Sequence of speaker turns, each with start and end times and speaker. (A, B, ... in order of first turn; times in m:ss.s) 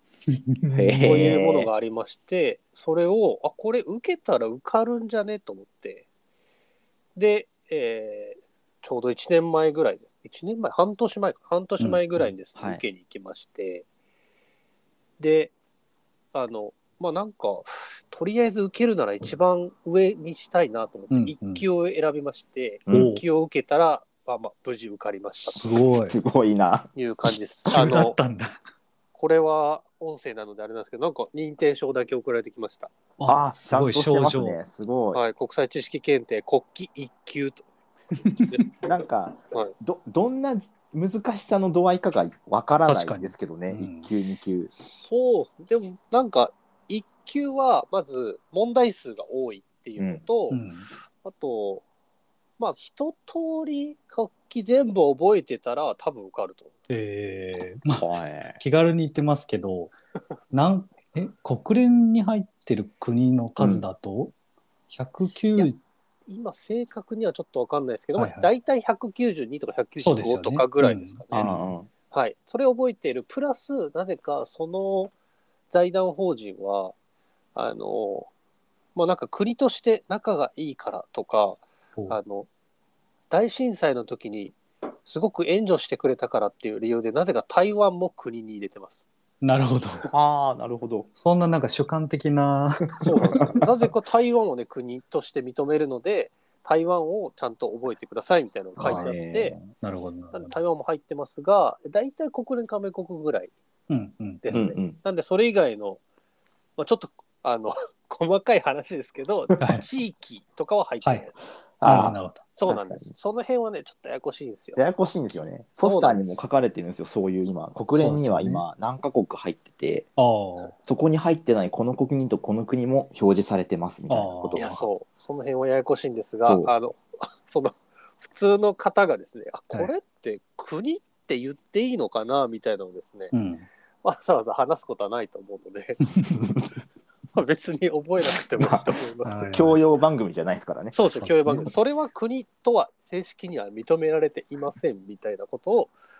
0:00.3-0:01.3 A
0:00.7-0:01.7 B
0:01.0-0:06.0 C
0:07.2-0:13.8 C
0:11.8-0:12.3 A
0:12.6-0:12.8 B
0:15.2-0:15.5 C
0:16.3-0:25.6 C
0:21.1-0:21.6 A
0:22.9-0:23.1 B
0:22.9-0:23.2 A
0:25.5-0:26.2 A
0:25.6-0:26.9 B
0:26.9-0:28.2 C
0:27.7-0:28.6 A
0:29.1-0:32.9 C
0:33.2-0:34.6 A
0:33.3-0:35.2 B
0:35.1-0:37.6 C
0:38.2-0:38.6 A
0:38.2-0:38.7 C
0:38.8-0:44.7 B
0:42.8-0:44.1 A
0:44.8-0:50.6 C
0:50.5-0:50.9 A
0:51.2-0:51.8 C
0:52.6-0:56.7 C
0:56.9-0:59.9 A
0:58.0-0:58.6 B
1:00.5-1:04.3 A
1:03.6-1:03.8 B
1:04.9-1:05.8 A
1:06.3-1:11.5 C
1:08.2-1:08.5 A
1:10.0-1:11.7 A
1:11.3-1:11.9 B
1:12.1-1:15.1 C
1:15.7-1:16.9 C
1:17.5-1:18.3 C
1:18.9-1:22.5 C
1:23.3-1:29.0 C
1:29.4-1:30.1 A
1:30.1-1:31.1 B
1:31.2-1:33.6 A
1:33.0-1:39.6 C
1:38.8-1:39.6 B
1:38.8-1:40.6 A
1:40.3-1:43.5 C
1:43.9-1:44.6 A
1:44.4-1:46.0 C
1:44.5-1:45.0 B
1:46.8-1:51.3 C
1:49.6-1:49.9 A
1:51.8-1:53.1 B
1:51.8-1:52.4 A
1:52.6-1:54.8 C
1:54.8-2:00.1 B
1:55.8-1:56.3 C
1:57.9-1:58.6 A
2:00.2-2:00.7 A
2:00.8-2:04.7 B
2:04.1-2:04.8 A
2:04.5-2:13.3 C
2:06.4-2:06.7 B
2:13.3-2:13.7 A
2:14.0-2:16.0 C
2:17.3-2:19.5 C
2:18.6-2:19.0 B
2:19.2-2:20.0 A
2:19.5-2:21.0 B
2:20.9-2:25.9 C
2:21.1-2:21.7 A